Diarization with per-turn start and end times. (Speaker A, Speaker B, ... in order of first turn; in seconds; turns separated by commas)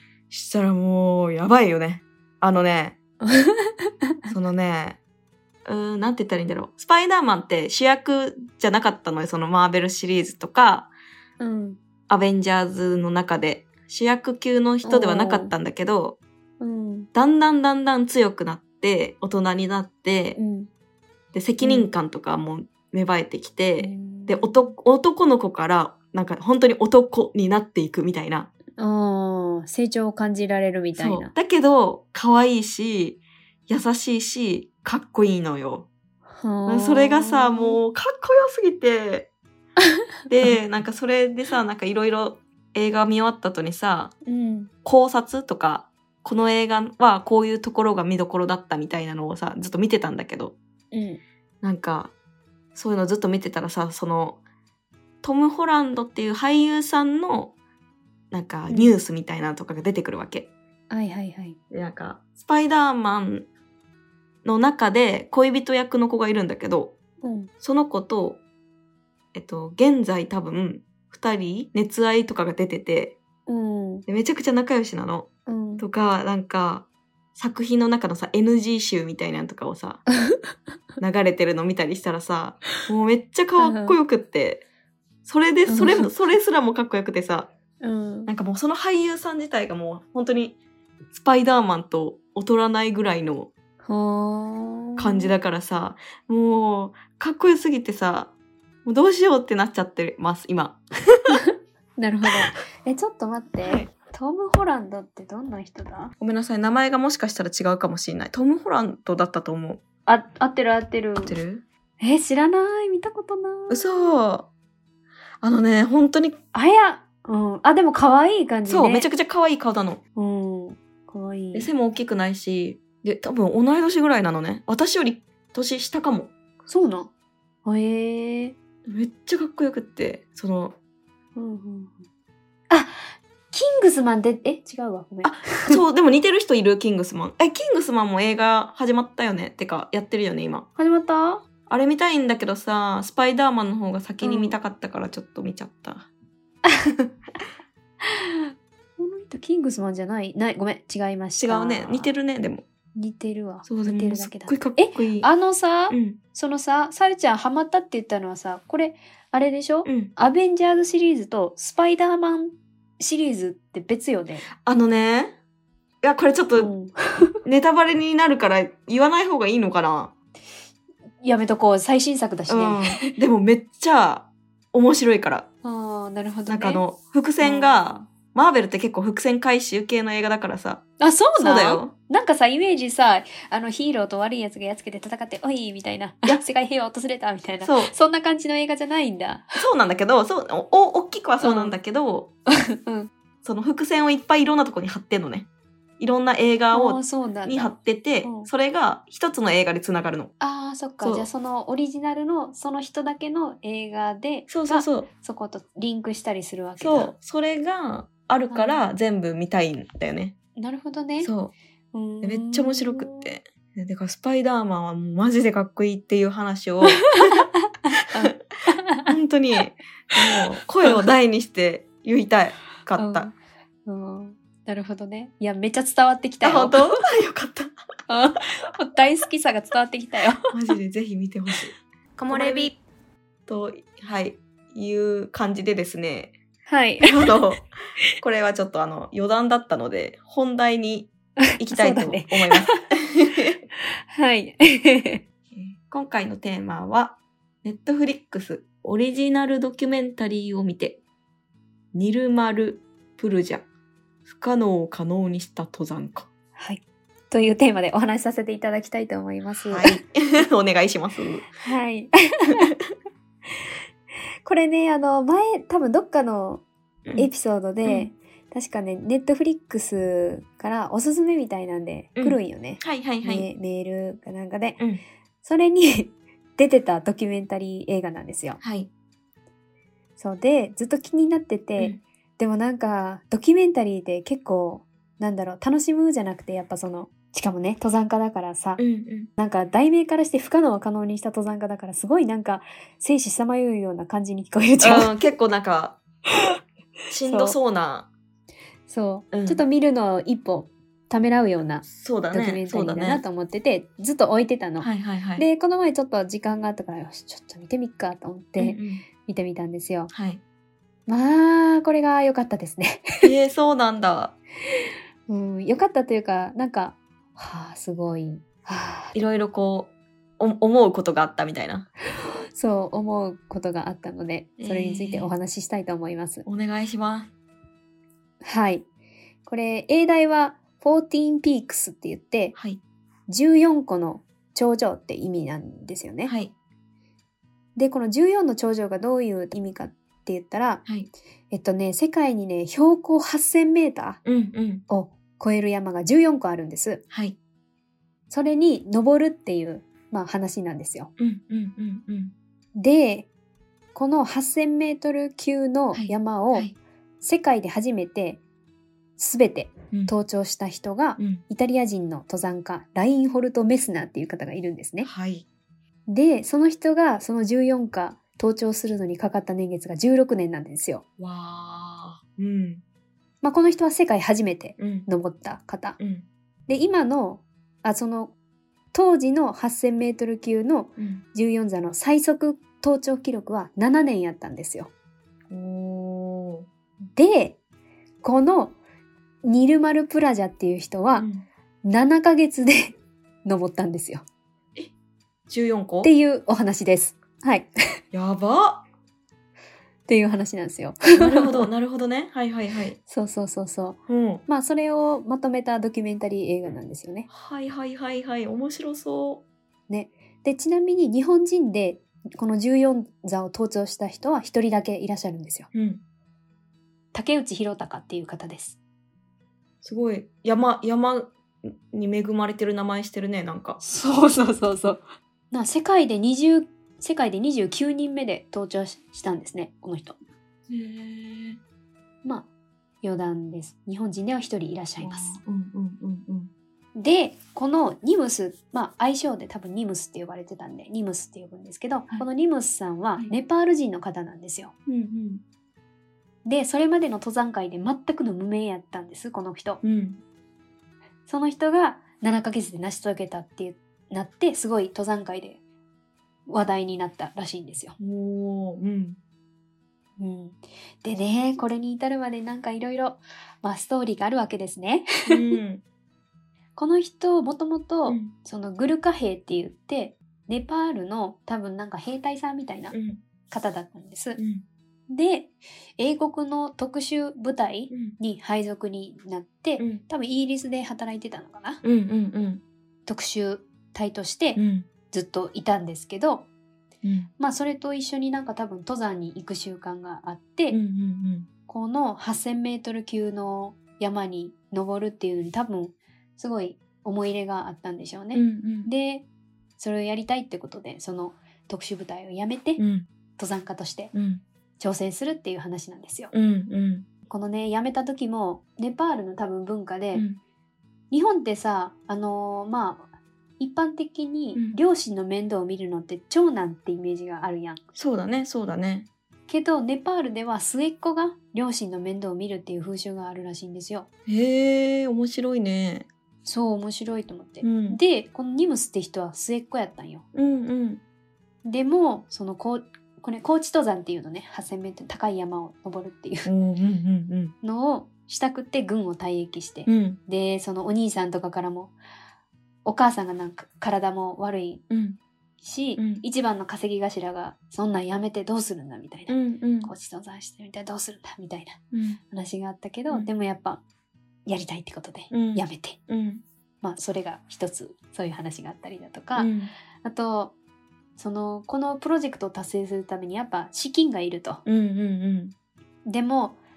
Speaker A: 0.3-3.0, Speaker B: 3.2-3.8, Speaker A: 4.3-5.0, Speaker A: 5.7-10.9, Speaker B: 11.4-11.8, Speaker A: 12.1-16.2, Speaker B: 14.8-15.5, Speaker B: 16.6-17.1, Speaker A: 17.1-20.4, Speaker B: 20.4-20.7, Speaker A: 21.3-28.5, Speaker B: 21.6-21.9, Speaker B: 23.8-24.7, Speaker B: 28.8-31.3, Speaker A: 31.0-35.9, Speaker B: 36.4-37.8, Speaker A: 36.7-39.3, Speaker A: 40.3-44.1, Speaker B: 44.3-44.7, Speaker A: 44.9-50.6, Speaker B: 50.9-51.2, Speaker A: 51.6-52.1, Speaker A: 52.8-54.4, Speaker A: 55.2-57.5, Speaker A: 58.3-60.5, Speaker B: 58.7-58.9, Speaker B: 60.9-61.6, Speaker A: 61.7-63.5, Speaker A: 64.4-67.0, Speaker B: 67.2-67.5, Speaker A: 67.6-68.4, Speaker A: 69.3-73.2, Speaker B: 73.5-74.1, Speaker A: 74.1-80.1, Speaker B: 75.5-75.9, Speaker A: 81.0-84.6, Speaker B: 83.6-84.0, Speaker A: 85.2-87.5, Speaker B: 85.7-86.1, Speaker B: 87.8-88.3, Speaker A: 88.3-90.6, Speaker A: 91.1-93.5, Speaker B: 93.8-95.3, Speaker A: 95.0-98.3, Speaker A: 98.8-101.2, Speaker B: 101.3-106.1, Speaker A: 103.6-103.9, Speaker A: 106.2-109.8, Speaker B: 110.1-111.4, Speaker A: 111.2-111.6, Speaker B: 112.0-114.1, Speaker A: 113.7-114.5, Speaker A: 115.4-116.4, Speaker B: 116.5-119.1, Speaker A: 118.7-120.0, Speaker B: 120.2-121.7, Speaker A: 121.5-126.3, Speaker B: 126.7-127.1, Speaker B: 127.7-128.6, Speaker A: 128.9-130.8, Speaker B: 131.4-132.0, Speaker B: 132.7-135.8, Speaker A: 135.2-140.7, Speaker B: 140.8-141.4, Speaker A: 141.7-146.1, Speaker B: 144.2-144.6, Speaker B: 148.0-152.1, Speaker A: 151.4-152.7, Speaker B: 153.0-164.5, Speaker A: 153.7-155.3, Speaker A: 155.9-156.2, Speaker A: 159.8-160.1, Speaker A: 164.6-165.3, Speaker A: 166.0-166.7, Speaker B: 166.6-167.3, Speaker A: 167.4-170.1, Speaker B: 171.2-173.1, Speaker A: 172.5-175.5, Speaker B: 175.6-176.8, Speaker A: 176.5-180.8, Speaker B: 177.4-178.1, Speaker B: 181.0-189.7, Speaker A: 181.4-181.9, Speaker A: 187.6-187.9, Speaker A: 189.6-192.3, Speaker B: 191.4-191.8, Speaker B: 192.8-193.1, Speaker A: 193.4-195.5, Speaker A: 196.0-200.3, Speaker B: 196.7-198.5, Speaker B: 200.4-207.1, Speaker A: 201.0-201.3, Speaker A: 204.5-205.1, Speaker A: 206.8-210.4, Speaker B: 208.5-208.8, Speaker B: 210.6-211.3, Speaker A: 211.2-211.5, Speaker B: 211.9-213.3, Speaker A: 212.2-217.4, Speaker B: 216.8-219.1, Speaker A: 219.0-223.3, Speaker B: 223.0-223.3, Speaker B: 223.9-226.9, Speaker A: 226.4-227.8, Speaker B: 228.1-230.5, Speaker A: 230.5-232.8, Speaker B: 232.3-232.7, Speaker A: 233.5-236.3, Speaker B: 236.7-237.3, Speaker A: 237.0-237.6, Speaker A: 238.2-243.6, Speaker B: 241.4-242.9, Speaker B: 244.1-245.2, Speaker A: 245.5-251.0, Speaker A: 251.9-253.7, Speaker A: 254.3-256.3, Speaker B: 256.6-260.0, Speaker A: 259.6-261.5, Speaker B: 261.6-262.7, Speaker B: 264.4-266.6, Speaker B: 267.1-274.8, Speaker A: 267.9-268.1, Speaker A: 272.2-273.5, Speaker B: 275.4-278.6, Speaker A: 278.6-278.9, Speaker B: 280.2-288.8, Speaker A: 288.8-289.3, Speaker B: 289.4-295.2, Speaker A: 294.8-296.0, Speaker A: 297.1-298.1, Speaker B: 297.2-297.6, Speaker B: 298.9-310.1, Speaker A: 299.3-299.6, Speaker A: 301.9-303.2, Speaker A: 304.8-305.5, Speaker A: 308.6-309.1, Speaker A: 310.1-310.4, Speaker B: 311.1-313.3, Speaker A: 313.2-314.3, Speaker B: 315.3-319.2, Speaker A: 319.1-321.9, Speaker B: 322.5-326.5, Speaker A: 324.6-325.3, Speaker A: 326.5-327.3, Speaker B: 328.4-328.9, Speaker B: 329.5-332.6, Speaker A: 332.6-332.8, Speaker B: 333.3-336.3, Speaker A: 336.3-336.5, Speaker B: 337.8-340.8, Speaker B: 341.5-344.2, Speaker A: 344.2-344.8, Speaker B: 344.9-347.0, Speaker A: 347.1-347.4, Speaker B: 348.3-351.1, Speaker A: 351.2-352.3, Speaker B: 352.8-353.3, Speaker B: 353.9-356.7, Speaker A: 355.9-356.8, Speaker B: 357.2-358.4, Speaker B: 359.2-365.1, Speaker A: 361.2-361.4, Speaker A: 365.0-365.5, Speaker B: 366.1-371.0, Speaker A: 371.2-372.8, Speaker B: 373.4-376.0, Speaker A: 374.8-375.1, Speaker A: 376.0-376.3, Speaker B: 376.7-378.3, Speaker B: 378.9-384.9, Speaker A: 381.0-381.2, Speaker A: 385.5-386.7, Speaker B: 387.1-387.6, Speaker B: 388.2-388.8, Speaker B: 389.4-391.3, Speaker A: 391.2-391.5, Speaker B: 391.8-394.2, Speaker A: 395.5-396.1, Speaker B: 396.0-397.7, Speaker A: 398.1-398.8, Speaker B: 400.1-401.7, Speaker A: 401.2-403.0, Speaker B: 403.1-407.3, Speaker A: 404.1-404.4, Speaker A: 407.3-409.4, Speaker B: 409.9-415.7, Speaker A: 415.7-416.0, Speaker B: 417.1-418.8, Speaker A: 419.8-423.8, Speaker B: 423.8-430.2, Speaker A: 430.7-431.6, Speaker B: 433.0-435.4, Speaker A: 435.0-436.5, Speaker B: 437.0-444.7, Speaker A: 444.9-445.4, Speaker B: 446.4-449.8, Speaker A: 449.8-450.2, Speaker B: 451.3-455.6, Speaker B: 456.5-458.0, Speaker A: 458.0-459.2, Speaker B: 460.2-465.6, Speaker A: 465.3-465.8, Speaker B: 466.8-473.0, Speaker A: 468.1-468.3, Speaker A: 472.9-473.2, Speaker B: 473.5-474.4, Speaker A: 474.4-474.6, Speaker B: 475.1-481.8, Speaker A: 477.9-478.2, Speaker A: 481.8-482.6, Speaker B: 483.1-484.6, Speaker A: 484.6-484.9, Speaker B: 485.1-486.5, Speaker A: 487.0-487.3, Speaker B: 487.4-490.8, Speaker A: 490.7-491.5, Speaker B: 491.7-499.2, Speaker A: 498.3-498.9, Speaker B: 499.8-502.8, Speaker A: 502.8-503.1, Speaker B: 503.4-504.1, Speaker A: 504.1-504.4, Speaker B: 504.8-506.3, Speaker A: 506.3-507.1, Speaker B: 507.3-510.2, Speaker A: 510.1-510.4, Speaker B: 511.1-513.1, Speaker B: 513.6-517.8, Speaker A: 518.0-519.1, Speaker B: 519.5-524.1, Speaker A: 524.3-526.1, Speaker B: 526.5-530.2, Speaker A: 527.6-528.0, Speaker A: 530.3-531.0, Speaker B: 531.6-536.5, Speaker A: 536.5-537.5, Speaker B: 537.6-541.9, Speaker A: 539.9-540.2, Speaker B: 542.9-544.8, Speaker A: 544.9-545.2, Speaker B: 545.6-551.8, Speaker A: 546.0-546.2, Speaker A: 549.3-549.9, Speaker A: 551.9-552.2, Speaker B: 552.3-553.8, Speaker B: 554.5-556.0, Speaker A: 555.3-556.4, Speaker B: 556.8-560.5, Speaker A: 559.4-559.7, Speaker B: 561.2-564.6, Speaker A: 564.6-565.5, Speaker B: 566.0-566.6